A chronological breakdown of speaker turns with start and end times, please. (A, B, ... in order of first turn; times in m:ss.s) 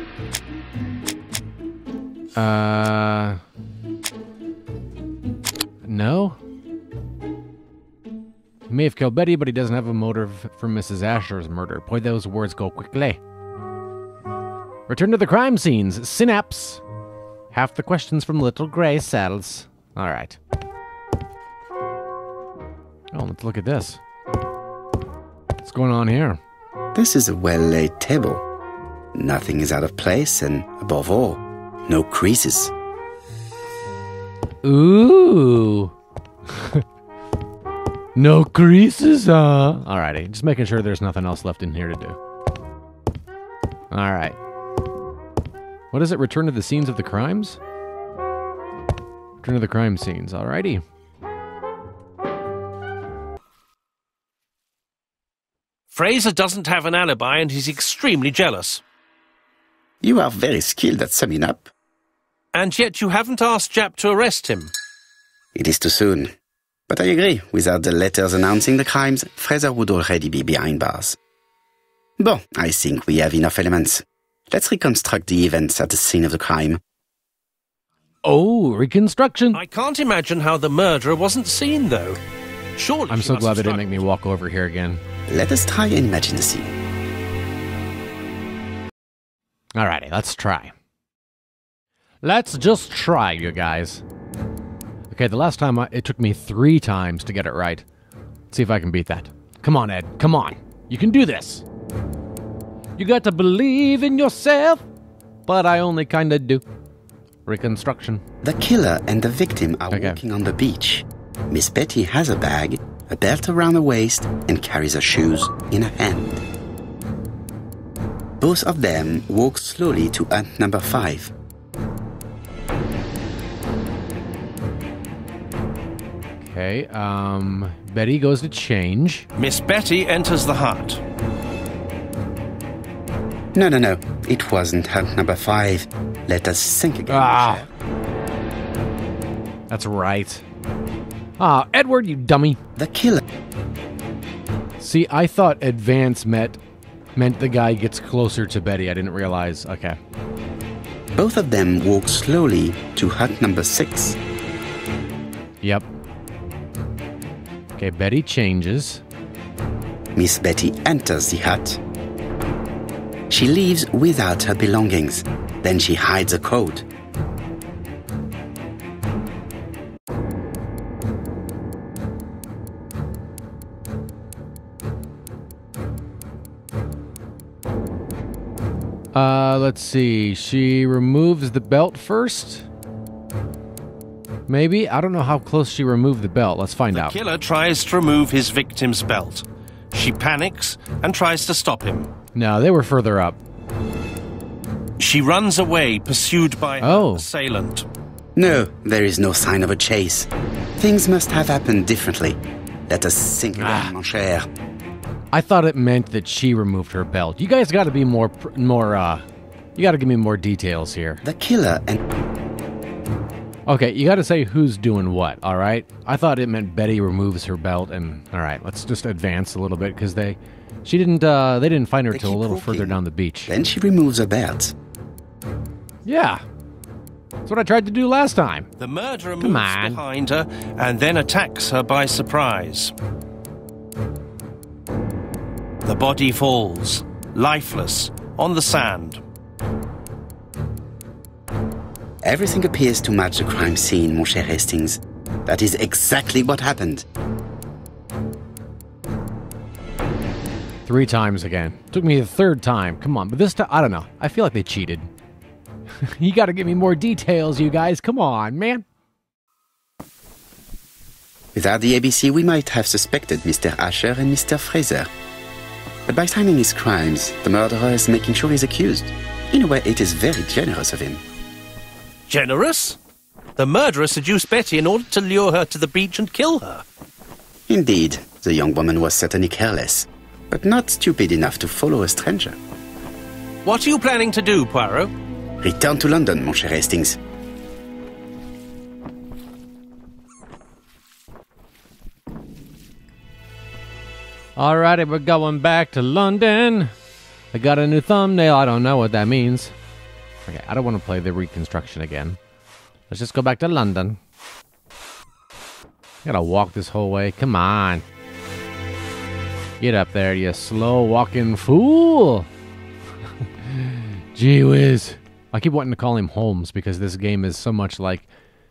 0:02.4-0:03.4 A
0:05.8-0:06.4 A
0:08.7-0:13.2 A
0:14.9-0:16.8 A
0:17.5-0:20.4 A
0:23.1-0:24.0 A
0:25.6-0:26.4 A
0:26.9-0:28.4 B
0:29.2-0:32.7 B
0:34.6-0:35.9 A
0:36.6-0:36.8 A
0:38.2-0:42.2 A
0:43.9-0:44.4 A
0:45.9-0:47.6 A
0:49.4-0:50.8 A
0:55.9-0:58.8 C
1:00.0-1:01.7 B
1:02.6-1:04.7 C
1:05.6-1:06.3 B
1:06.9-1:11.2 B
1:12.2-1:16.8 B
1:18.2-1:19.6 A
1:19.5-1:22.2 C
1:22.8-1:24.0 C
1:23.1-1:25.0 A
1:25.3-1:26.7 B
1:29.8-1:30.7 A
1:32.2-1:34.0 A
1:35.1-1:37.8 A
1:38.5-1:41.6 A
1:43.0-1:44.9 A
1:45.5-1:46.6 A
1:47.5-1:48.2 A
1:48.4-1:56.4 B
1:49.9-1:50.2 A
1:58.4-2:01.3 B
2:06.4-2:09.3 A
2:09.4-2:11.0 C
2:13.5-2:17.7 B
2:17.1-2:17.6 A
2:19.7-2:20.4 A
2:21.4-2:22.6 A
2:22.8-2:23.2 B
2:24.8-2:26.6 A
2:27.2-2:30.0 A
2:31.1-2:34.2 B
2:35.6-2:35.9 A
2:37.8-2:39.0 A
2:40.2-2:41.8 B
2:43.3-2:46.8 B
2:59.1-3:02.7 A
3:04.5-3:07.2 A
3:06.9-3:12.1 C
3:12.3-3:13.4 A
3:15.0-3:17.9 C
3:16.8-3:17.2 A
3:18.4-3:24.5 B
3:23.6-3:23.9 A
3:25.3-3:31.2 A
3:31.2-3:32.0 B
3:33.7-3:43.5 A
3:42.1-3:44.7 B
3:46.0-3:46.4 A
3:47.5-3:48.7 A
3:48.8-3:52.9 C
3:49.4-3:50.0 A
3:55.8-3:59.2 C
4:02.2-4:07.1 B
4:10.8-4:15.1 A
4:16.0-4:18.8 A
4:21.6-4:25.1 B
4:26.1-4:31.2 B
4:32.3-4:33.0 C
4:33.6-4:36.8 C
4:37.7-4:42.6 B
4:43.6-4:45.1 C
4:45.6-4:47.2 B
4:54.6-4:56.9 A
4:57.5-4:59.7 A
5:00.5-5:02.4 A
5:03.1-5:04.2 A
5:06.2-5:08.0 A
5:09.8-5:12.5 A
5:13.6-5:18.3 A